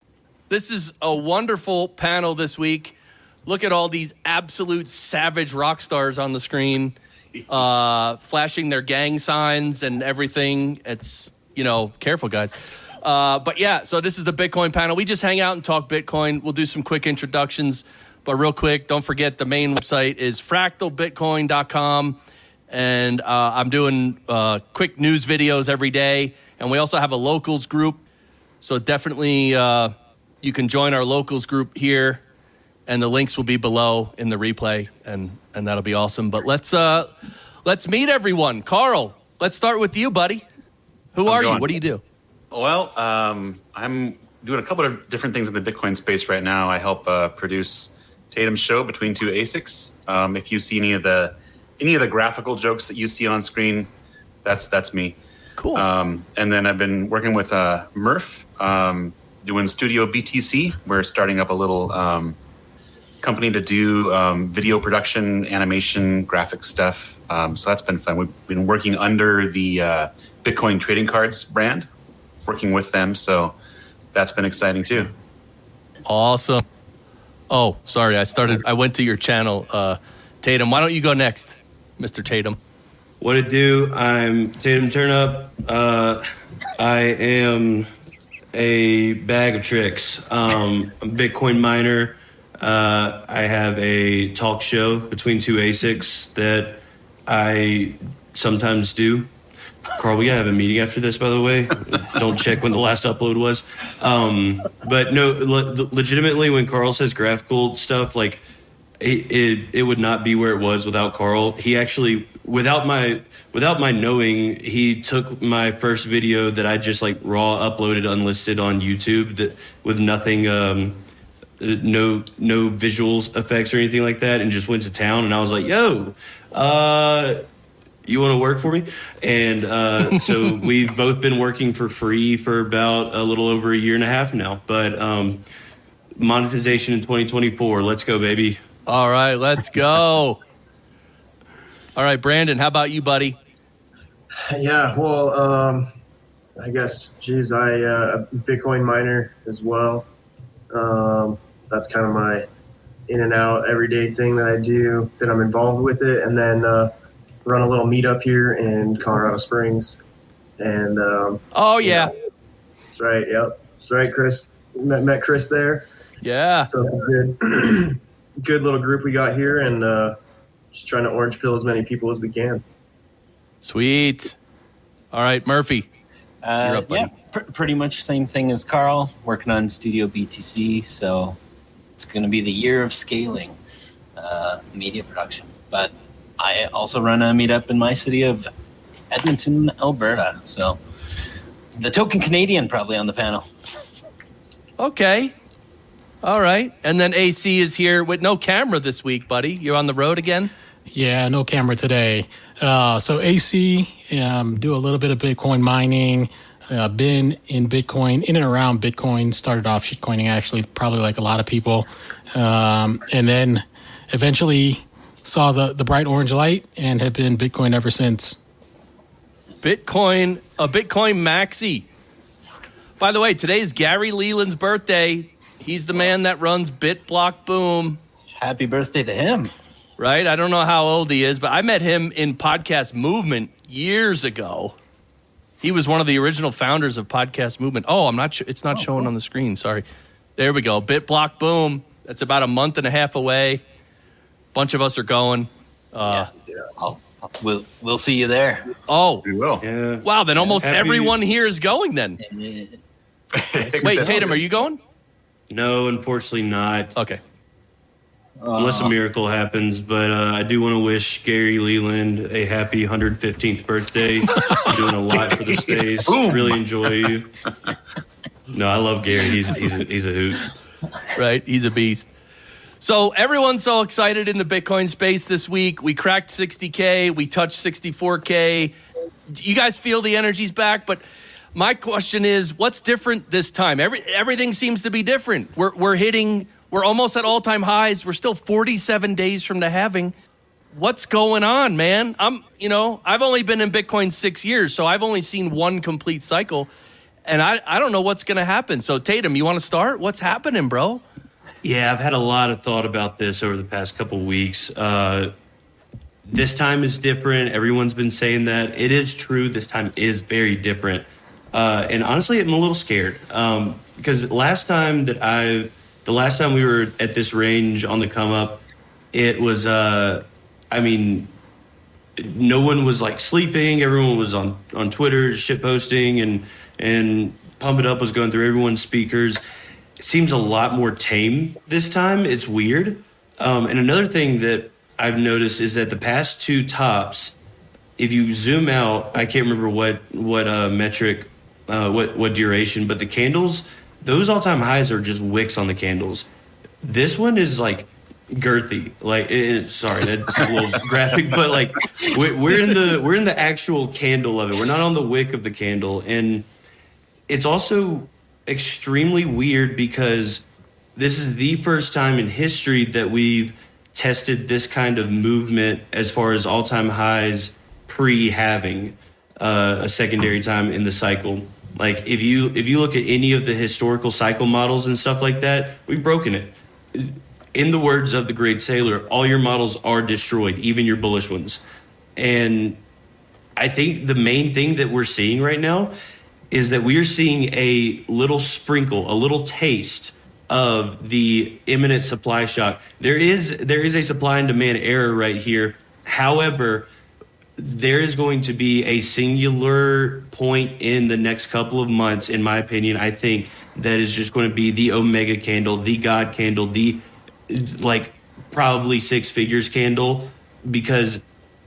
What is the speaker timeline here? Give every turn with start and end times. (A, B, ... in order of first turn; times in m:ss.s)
0:00.5-0:02.9 A
0:03.4-0:07.0 A
0:07.5-0:22.2 A
0:22.7-0:28.0 A
0:28.6-0:32.2 A
0:32.9-0:37.1 A
0:37.6-0:40.4 A
0:41.1-0:42.0 A
0:41.2-0:41.7 B
0:42.5-0:53.9 B
0:54.4-0:55.2 B
0:55.6-0:55.8 A
0:55.7-1:02.4 B
1:03.2-1:11.9 B
1:12.4-1:13.5 B
1:14.1-1:15.1 B
1:16.0-1:16.6 A
1:17.5-1:22.6 A
1:23.2-1:26.2 C
1:26.8-1:27.9 C
1:28.5-1:39.3 C
1:40.0-1:48.4 C
1:49.0-2:01.0 C
2:01.6-2:07.4 C
2:08.0-2:15.4 C
2:16.2-2:18.6 C
2:18.9-2:20.4 A
2:22.0-2:23.4 A
2:24.5-2:25.9 D
2:26.6-2:30.0 D
2:30.7-2:32.4 D
2:33.1-2:36.9 D
2:37.4-2:40.0 D
2:40.6-2:42.1 D
2:41.5-2:42.1 A
2:42.9-2:45.8 D
2:46.2-2:46.7 A
2:46.7-2:50.2 D
2:50.7-2:52.6 D
2:53.6-2:54.4 A
2:55.1-2:55.9 A
2:56.4-3:01.4 E
2:56.6-2:57.1 A
3:02.0-3:03.6 E
3:04.2-3:08.5 E
3:09.1-3:10.8 E
3:11.8-3:13.5 E
3:14.8-3:15.3 A
3:16.2-3:20.5 A
3:20.9-3:38.4 F
3:39.6-3:41.9 A
3:43.0-3:48.0 A
3:48.4-3:49.5 E
3:50.0-3:54.7 A
3:55.6-3:59.8 A
4:00.4-4:03.6 A
4:04.5-4:06.3 A
4:06.1-4:08.7 E
4:08.9-4:09.2 A
4:09.2-4:09.6 B
4:09.6-4:10.0 C
4:10.0-4:12.2 A
4:10.6-4:11.2 C
4:12.2-4:12.8 E
4:13.4-4:14.3 B
4:13.8-4:14.8 A
4:13.8-4:14.1 E
4:15.5-4:16.9 C
4:18.4-4:18.9 E
4:18.5-4:27.3 C
4:25.3-4:27.1 B
4:28.5-4:30.5 C
4:31.1-4:32.1 A
4:32.8-4:38.7 A
4:39.3-4:41.0 A
4:41.5-4:50.1 A
4:50.7-4:56.7 A
4:57.2-5:01.0 A
5:01.6-5:05.3 C
5:06.3-5:21.3 C
5:22.2-5:29.4 C
5:30.0-5:37.4 C
5:38.0-5:46.3 C
5:46.8-5:56.4 C
5:57.3-6:00.4 C
6:01.0-6:21.6 C
6:22.2-6:22.8 C
6:23.6-6:25.9 C
6:26.5-6:36.9 C
6:37.6-6:51.2 C